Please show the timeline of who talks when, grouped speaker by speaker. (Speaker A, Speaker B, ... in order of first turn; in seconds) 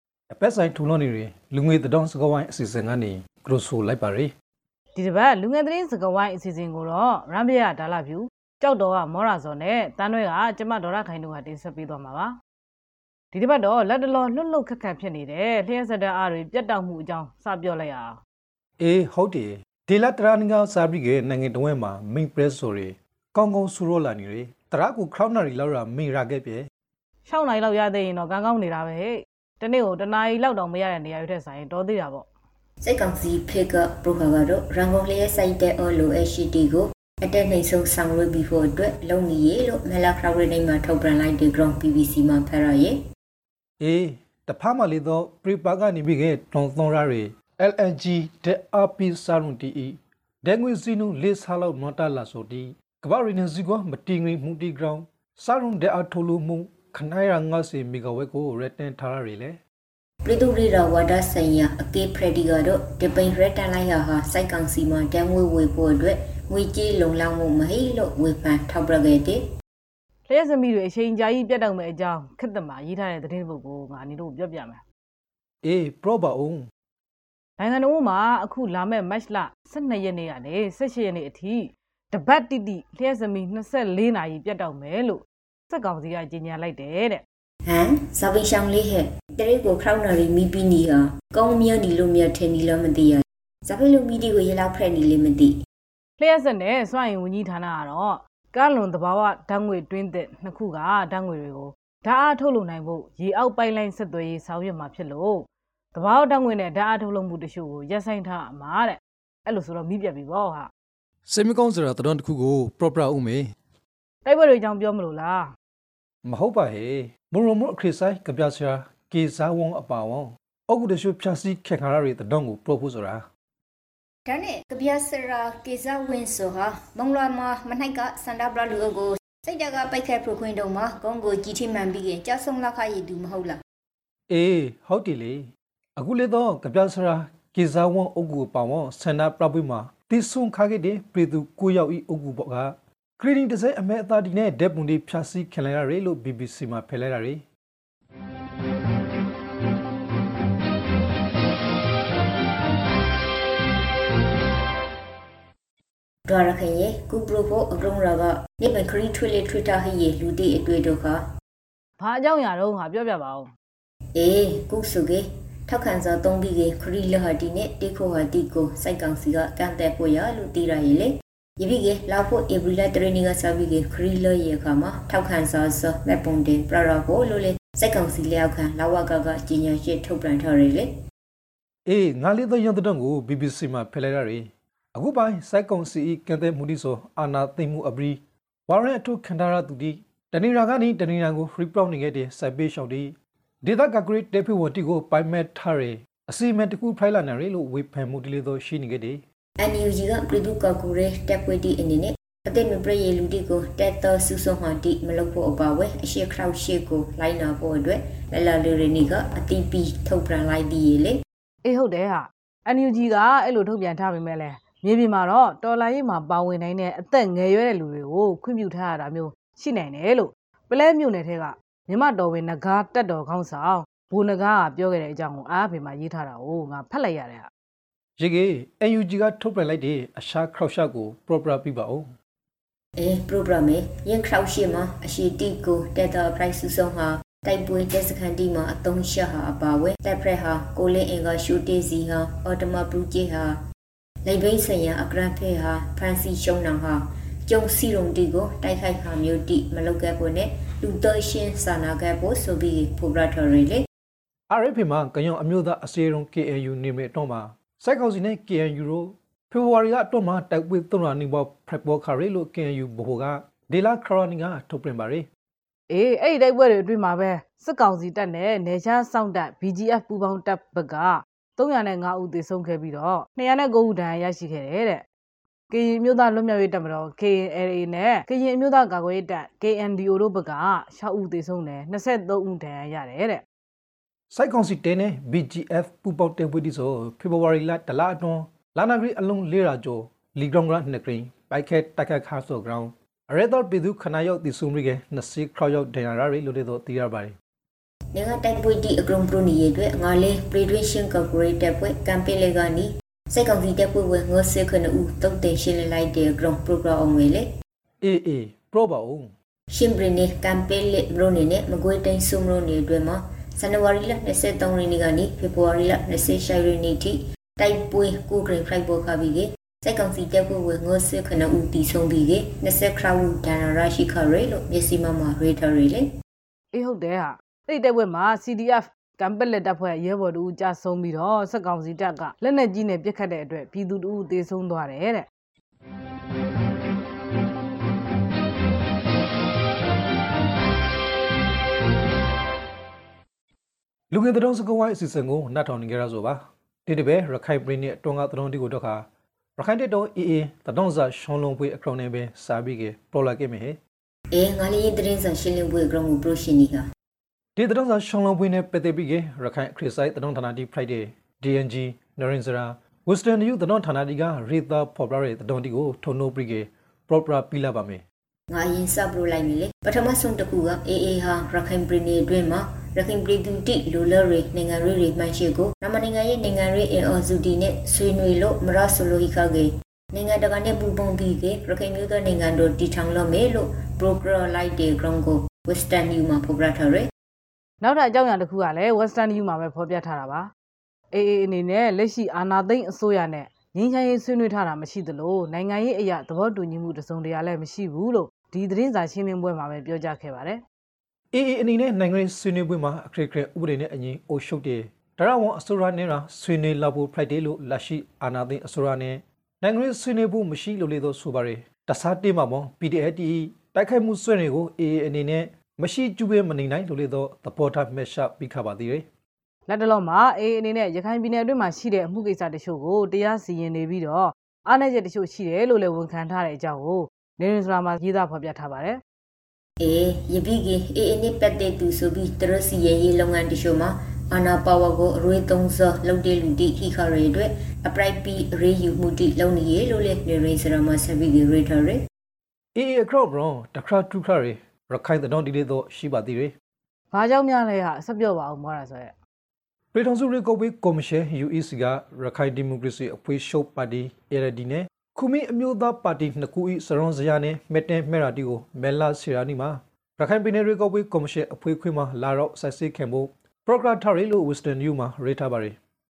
Speaker A: 0.3-4.3, 18.8-26.7, 43.8-59.6, 75.6-76.7, 111.3-113.5, 116.2-123.2, 134.3-147.4, 181.9-199.2, 228.2-232.1, 254.5-265.3, 284.3-297.3, 308.0-309.3, 344.1-349.1, 349.6-353.8, 357.6-368.0, 401.3-419.1, 442.8-446.5, 449.9-465.8
Speaker B: 5.0-12.3, 13.3-18.2, 27.3-32.3, 70.3-74.8, 77.6-87.2, 96.2-110.7, 114.2-115.5, 162.0-163.5, 211.6-227.5, 265.9-275.1, 275.7-283.4, 326.7-335.3, 387.8-390.5, 391.1-400.6, 419.7-429.0, 447.1-449.1
Speaker C: 32.8-43.0, 60.2-69.4, 87.7-95.5, 124.3-133.6, 156.3-161.2, 164.2-180.9, 199.6-211.2, 233.0-243.6, 244.2-253.8, 298.1-307.5, 309.7-326.1, 354.3-356.9, 368.5-387.1, 429.8-442.0